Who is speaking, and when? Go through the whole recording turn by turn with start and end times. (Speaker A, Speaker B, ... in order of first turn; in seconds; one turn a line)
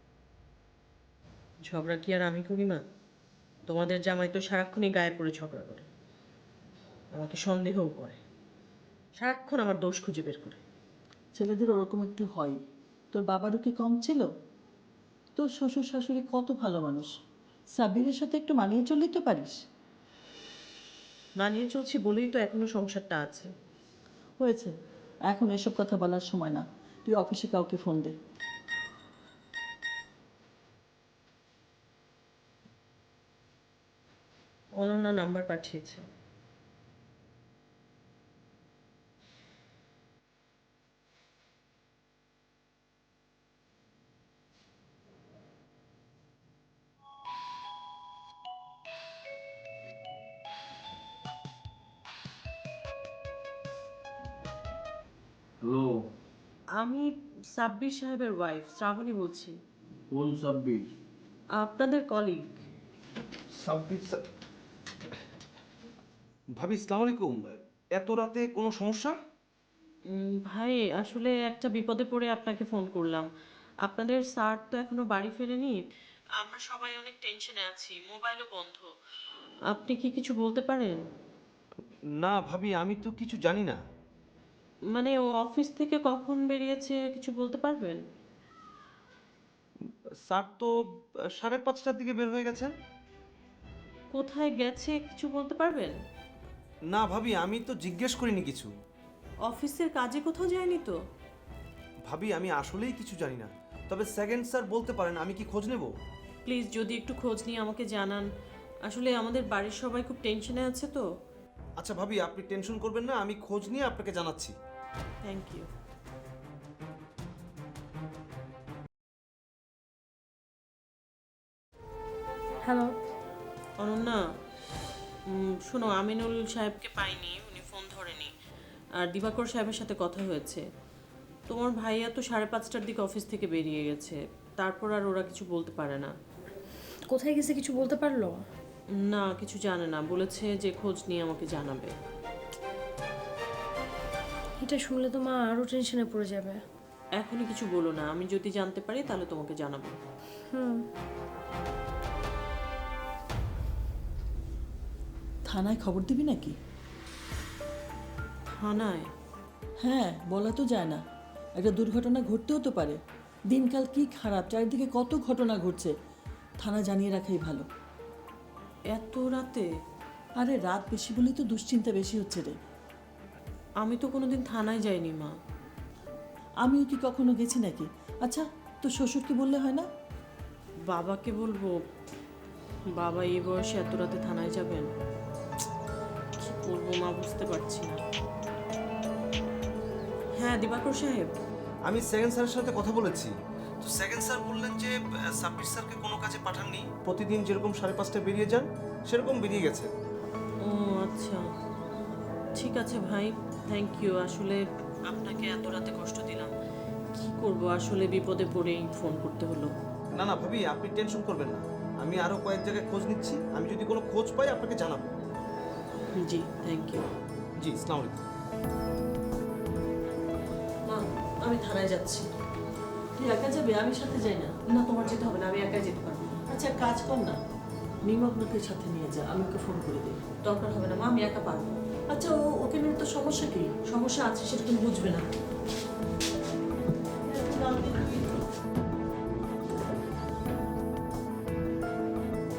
Speaker A: 1.7-2.9
Speaker A: 3.7-5.9
Speaker A: 7.2-8.2
Speaker A: 9.2-10.6
Speaker B: 11.3-12.6
Speaker B: 13.1-14.3
Speaker B: 15.4-17.1
Speaker B: 17.8-19.6
Speaker A: 21.4-23.5
Speaker B: 24.4-24.7
Speaker B: 25.2-28.1
Speaker A: 34.8-36.0
Speaker A: 56.8-59.6
Speaker A: 61.6-62.5
Speaker C: 63.6-64.2
Speaker C: 66.6-69.2
Speaker A: 70.1-73.3
Speaker A: 73.8-75.8
Speaker A: 76.4-78.9
Speaker A: 79.7-81.0
Speaker C: 82.2-83.8
Speaker A: 84.9-88.0
Speaker C: 90.2-90.7
Speaker C: 91.3-92.7
Speaker A: 94.1-96.0
Speaker C: 96.9-98.7
Speaker A: 99.5-101.0
Speaker C: 102.1-105.9
Speaker A: 106.5-108.3
Speaker A: 108.9-111.1
Speaker C: 111.8-114.5
Speaker A: 115.2-115.7
Speaker D: 122.7-122.9
Speaker A: 123.8-124.2
Speaker A: 125.3-128.3
Speaker A: 129.0-130.6
Speaker A: 131.5-136.1
Speaker D: 137.1-138.4
Speaker A: 139.1-141.9
Speaker D: 144.6-146.6
Speaker A: 147.2-150.0
Speaker D: 150.5-150.8
Speaker B: 155.5-156.6
Speaker A: 158.6-159.1
Speaker B: 159.8-161.0
Speaker B: 161.6-163.0
Speaker B: 163.5-165.9
Speaker B: 166.6-167.7
Speaker A: 168.9-169.7
Speaker B: 170.4-172.6
Speaker A: 173.8-175.3
Speaker B: 176.7-179.9
Speaker A: 180.9-181.8
Speaker A: 183.0-184.9
Speaker A: 186.4-188.0
Speaker A: 190.4-191.3
Speaker C: 191.9-199.9
Speaker A: 200.6-201.4
Speaker A: 202.6-206.6
Speaker A: 207.1-209.7
Speaker C: 210.1-215.1
Speaker A: 216.2-217.1
Speaker C: 217.6-218.2
Speaker A: 220.9-222.3
Speaker B: 223.2-224.5
Speaker A: 224.7-226.3
Speaker B: 226.5-227.4
Speaker B: 228.1-230.2
Speaker A: 230.4-235.3
Speaker A: 237.3-238.3